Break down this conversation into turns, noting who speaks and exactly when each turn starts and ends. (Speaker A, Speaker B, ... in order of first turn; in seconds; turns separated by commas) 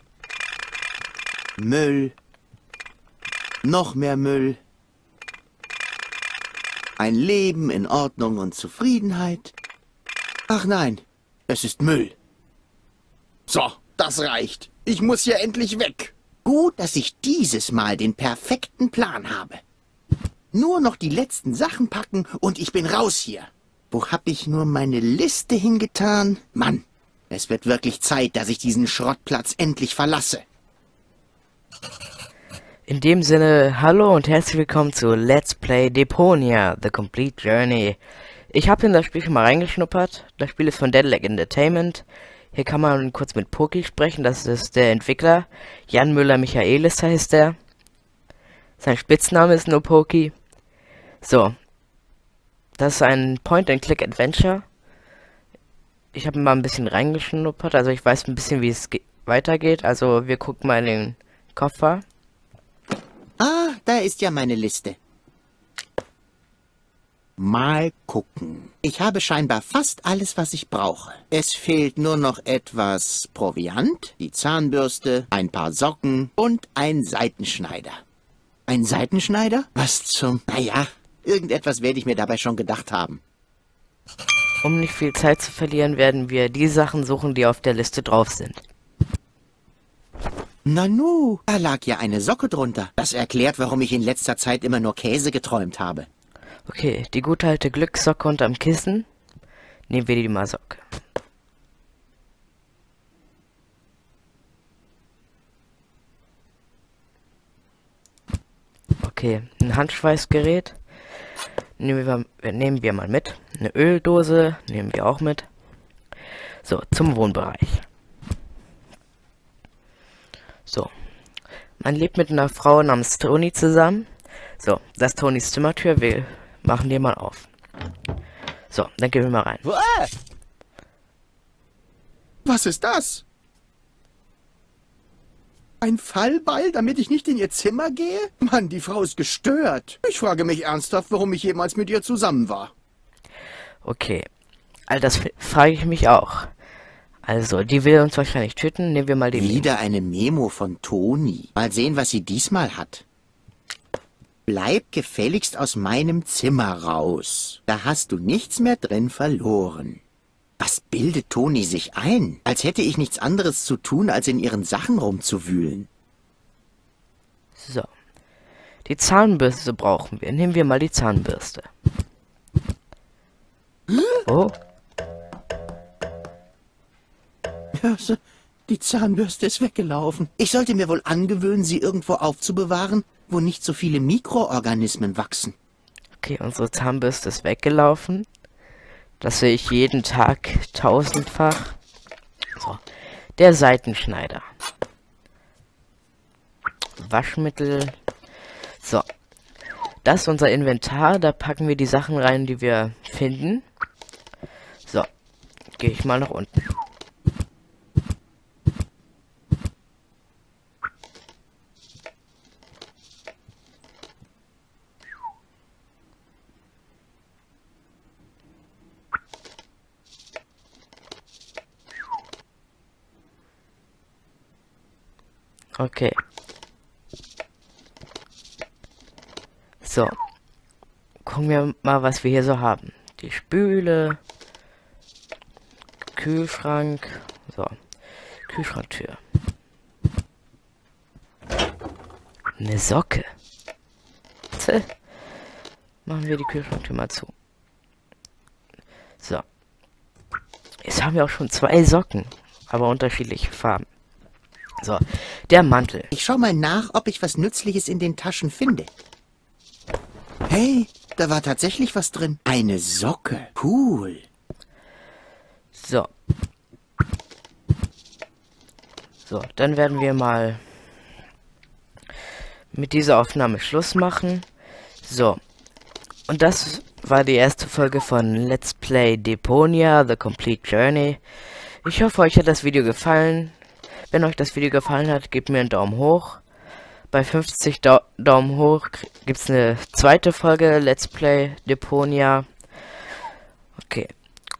Speaker A: 1.6-2.1, Speaker A: 3.6-4.6, Speaker A: 7.0-9.5, Speaker A: 10.5-12.1, Speaker A: 13.5-19.6, Speaker A: 20.5-30.4, Speaker B: 32.9-38.0, Speaker B: 38.5-47.5, Speaker B: 48.8-50.3, Speaker B: 51.2-51.5, Speaker B: 52.8-54.6, Speaker B: 56.1-62.0, Speaker A: 63.4-65.0, Speaker A: 67.4-78.0, Speaker A: 78.7-83.2, Speaker B: 84.6-88.6, Speaker A: 90.7-96.1, Speaker B: 96.7-99.0, Speaker B: 99.9-100.8, Speaker B: 109.0-110.8, Speaker B: 111.8-115.5, Speaker B: 116.6-117.8, Speaker B: 120.7-120.9, Speaker B: 121.8-127.5, Speaker B: 128.7-129.6, Speaker A: 132.4-133.2, Speaker A: 135.8-142.7, Speaker B: 143.8-144.2, Speaker B: 144.9-146.5, Speaker B: 147.2-149.7, Speaker A: 149.3-153.0, Speaker A: 154.5-160.0, Speaker A: 160.6-165.9, Speaker B: 167.6-167.9, Speaker B: 168.8-171.7, Speaker A: 173.9-174.2, Speaker B: 174.2-174.5, Speaker A: 177.8-185.5, Speaker B: 186.2-188.3, Speaker B: 189.2-191.8, Speaker B: 192.6-192.8, Speaker B: 193.3-194.4, Speaker B: 197.0-197.9, Speaker B: 200.0-203.6, Speaker B: 205.8-206.7, Speaker B: 225.8-226.2, Speaker B: 229.8-230.2, Speaker B: 231.2-234.2, Speaker B: 236.2-237.8, Speaker B: 238.4-239.2, Speaker B: 242.6-243.3, Speaker B: 244.5-244.9, Speaker B: 246.0-247.3, Speaker B: 250.8-253.8, Speaker B: 254.8-256.1, Speaker A: 256.1-258.9, Speaker A: 260.5-264.2, Speaker B: 265.7-266.1, Speaker B: 269.2-270.6, Speaker B: 272.7-274.4, Speaker B: 275.0-275.4, Speaker B: 276.3-281.2, Speaker B: 281.8-283.5, Speaker B: 284.1-286.4, Speaker B: 287.1-292.5, Speaker B: 293.8-294.1